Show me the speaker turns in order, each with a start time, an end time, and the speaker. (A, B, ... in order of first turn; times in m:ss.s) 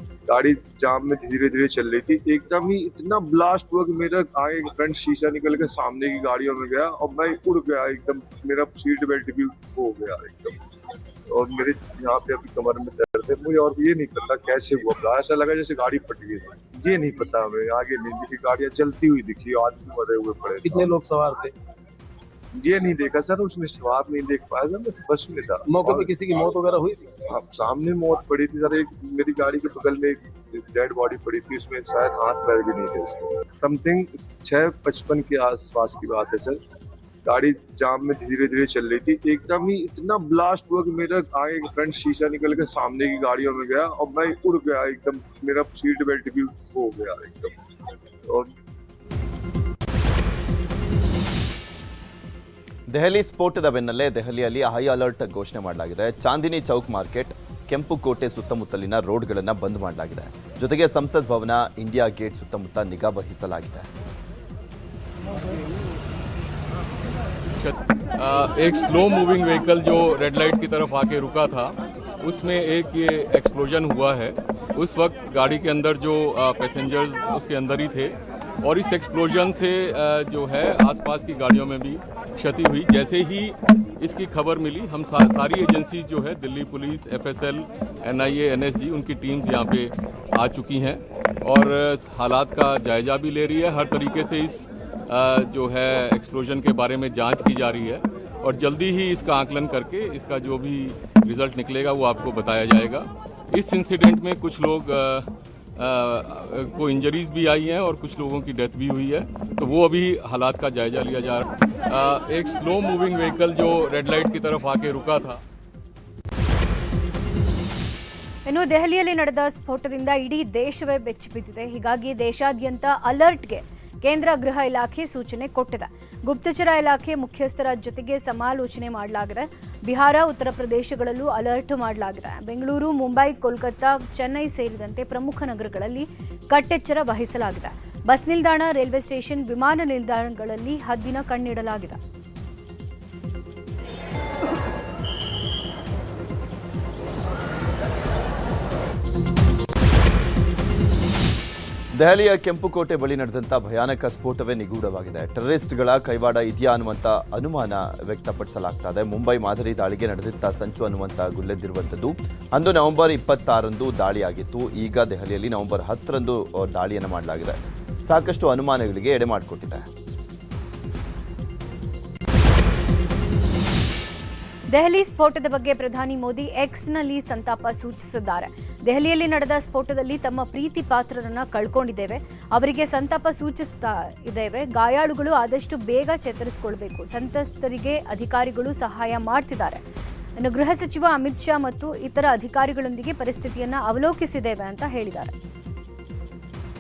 0:00.3-0:10.6 A
0:11.3-0:20.9 A
0:20.7-0:21.5 B
0:22.6-0:26.5 A
0:25.7-0:27.1 B
0:27.3-0:36.6 A
0:37.2-0:47.6 A
0:52.9-1:03.9 C
1:07.6-1:55.4 D
1:58.4-2:22.0 E
2:31.9-2:49.9 C
2:54.7-3:09.8 E
3:10.4-3:15.3 E